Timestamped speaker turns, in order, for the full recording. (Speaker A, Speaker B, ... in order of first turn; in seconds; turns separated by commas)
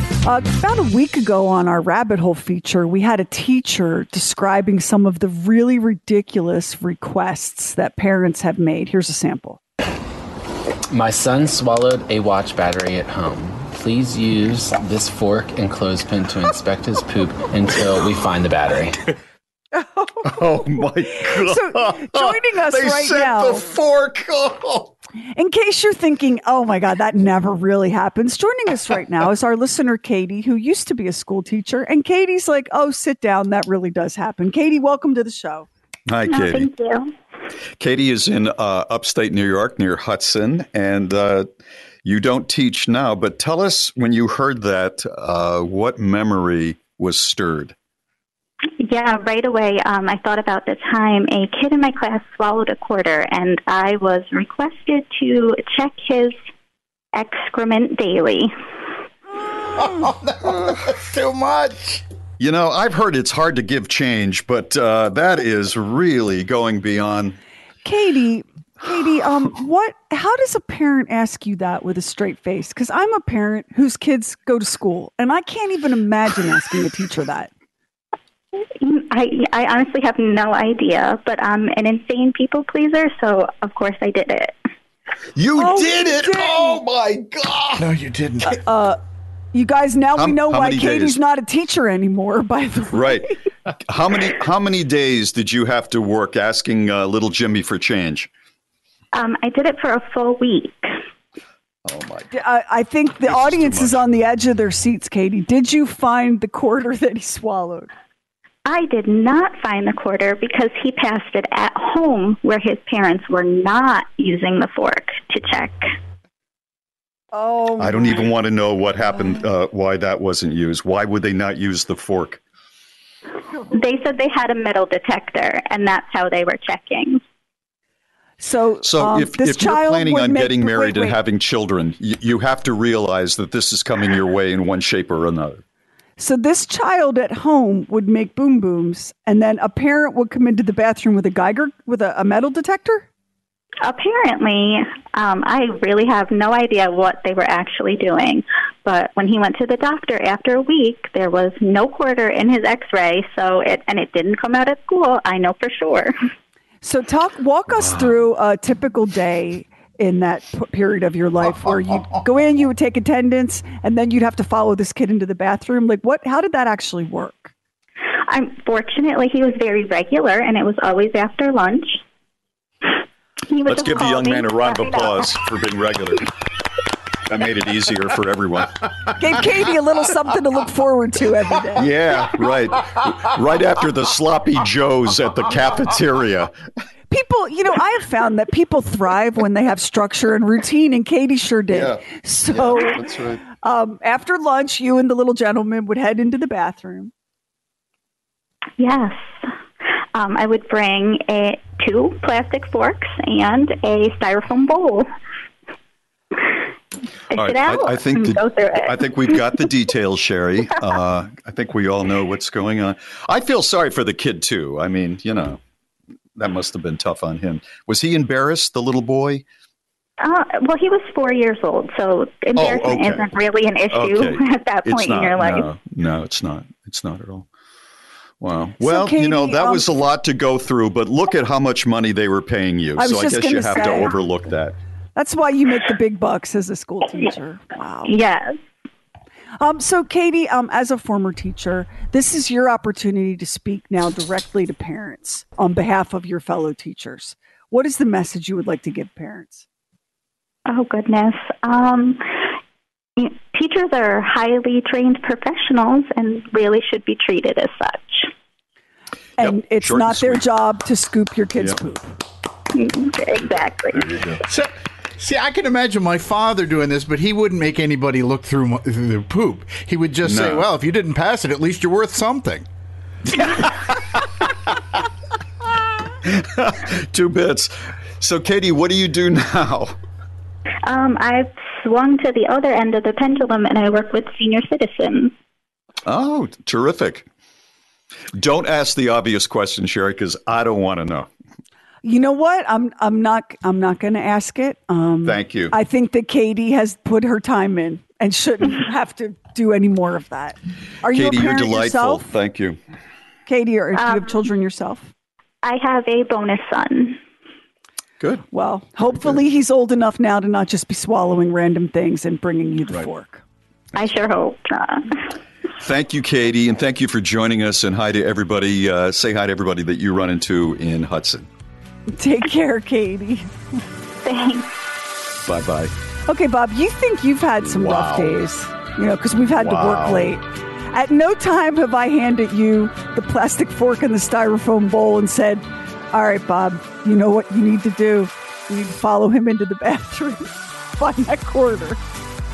Speaker A: 0.2-9.6, Speaker B: 10.9-19.1, Speaker A: 19.8-20.2, Speaker C: 20.2-24.9, Speaker A: 21.2-23.6, Speaker A: 25.4-35.7, Speaker C: 36.1-36.7, Speaker D: 36.3-37.1, Speaker C: 37.8-41.5, Speaker C: 42.0-47.8, Speaker D: 48.8-56.3, Speaker D: 57.1-58.5, Speaker E: 59.7-62.0, Speaker C: 62.4-67.4, Speaker A: 67.8-77.5, Speaker D: 78.8-84.5, Speaker C: 85.3-87.9, Speaker A: 85.6-86.8, Speaker E: 87.8-88.6, Speaker A: 88.5-89.0, Speaker A: 89.5-93.3, Speaker C: 90.2-91.2, Speaker C: 92.9-93.3, Speaker C: 93.9-98.3, Speaker D: 99.2-100.9, Speaker C: 101.9-102.3, Speaker A: 102.3-107.9, Speaker C: 103.2-104.0, Speaker D: 108.7-115.9, Speaker A: 117.3-118.3, Speaker C: 117.8-122.4, Speaker D: 123.7-127.2, Speaker A: 128.4-131.2, Speaker C: 128.8-135.6, Speaker A: 136.2-143.1, Speaker D: 143.8-156.1, Speaker A: 156.8-167.5, Speaker D: 168.3-172.0, Speaker D: 173.5-175.3, Speaker C: 173.7-176.3, Speaker C: 177.3-178.9, Speaker A: 179.2-181.9, Speaker C: 181.8-186.5, Speaker A: 187.1-197.1, Speaker C: 191.7-193.4, Speaker D: 198.8-199.2, Speaker D: 200.2-205.1, Speaker D: 207.3-209.1, Speaker C: 207.3-215.6, Speaker C: 216.4-219.4, Speaker D: 220.2-225.7, Speaker C: 222.6-223.3, Speaker C: 223.9-227.5, Speaker C: 228.4-234.8, Speaker A: 228.8-229.9, Speaker A: 233.0-234.2, Speaker A: 235.2-238.1, Speaker D: 238.1-238.5, Speaker A: 239.6-249.6, Speaker D: 250.7-252.2, Speaker D: 253.2-258.3, Speaker A: 259.4-262.1, Speaker C: 259.4-260.4, Speaker D: 262.7-264.0, Speaker C: 264.1-264.3, Speaker E: 264.4-272.7, Speaker C: 270.2-270.7, Speaker C: 276.2-280.0, Speaker D: 280.9-285.3, Speaker C: 286.1-287.3, Speaker C: 288.3-291.3, Speaker A: 292.0-302.3, Speaker C: 295.2-295.8, Speaker C: 301.1-302.8, Speaker A: 303.5-305.1, Speaker D: 304.0-304.3, Speaker D: 305.6-307.2, Speaker C: 308.2-308.4, Speaker A: 308.5-313.4, Speaker D: 313.9-315.2, Speaker C: 315.8-321.5, Speaker A: 322.2-323.5, Speaker D: 324.2-324.7, Speaker C: 325.4-325.9, Speaker A: 326.3-342.0, Speaker C: 327.7-328.4, Speaker C: 329.6-330.2